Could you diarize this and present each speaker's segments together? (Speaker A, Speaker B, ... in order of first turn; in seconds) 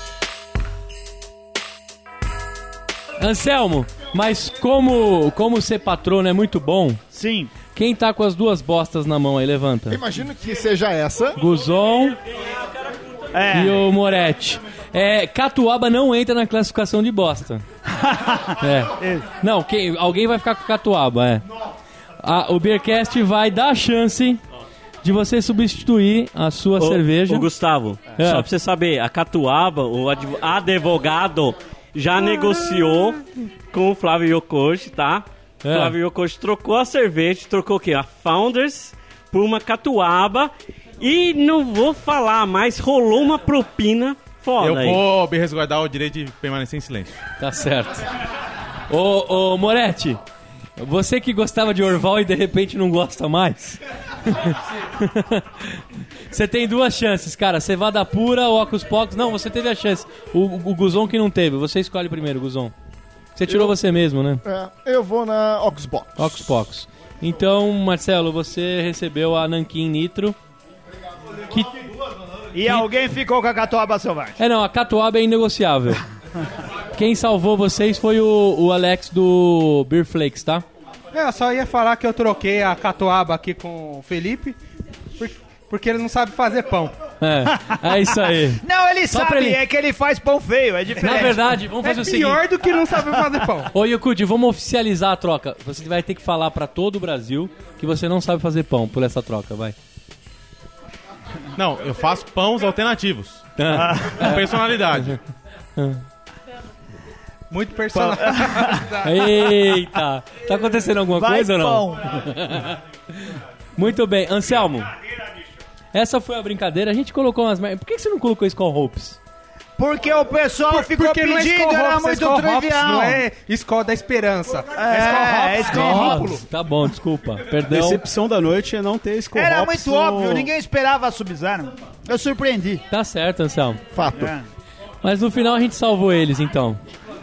Speaker A: 3.2-7.0, 7.7-10.0, 11.4-12.2, 13.5-17.6, 18.6-21.4, 22.2-24.4, 25.0-27.5, 28.2-28.5, 35.6-36.0, 47.4-48.0, 48.9-50.2, 50.8-62.7, 63.4-64.4, 66.2-70.4, 74.4-76.0, 77.0-80.7, 87.2-89.6, 91.0-92.4, 93.7-99.8, 103.6-104.4, 105.8-106.0, 109.0-112.8, 113.8-114.9, 115.9-119.2, 125.7-128.0, 132.9-133.8, 135.0-136.8
Speaker B: 7.1-7.5, 13.3-13.8, 17.9-19.2, 72.5-74.4, 87.6-88.0, 88.6-91.5, 103.7-104.2, 108.2-108.8, 111.2-112.1, 119.8-123.2, 124.8-126.3, 129.3-132.8, 134.1-134.5
Speaker C: 9.9-11.4, 63.5-63.8, 64.4-66.5, 133.9-134.3
Speaker D: 26.8-45.0
Speaker E: 44.6-47.2, 101.6-103.6, 104.2-105.2
Speaker F: 81.1-84.6, 85.2-86.9, 91.8-93.7, 107.5-109.3, 120.7-126.4
Speaker G: 127.7-130.5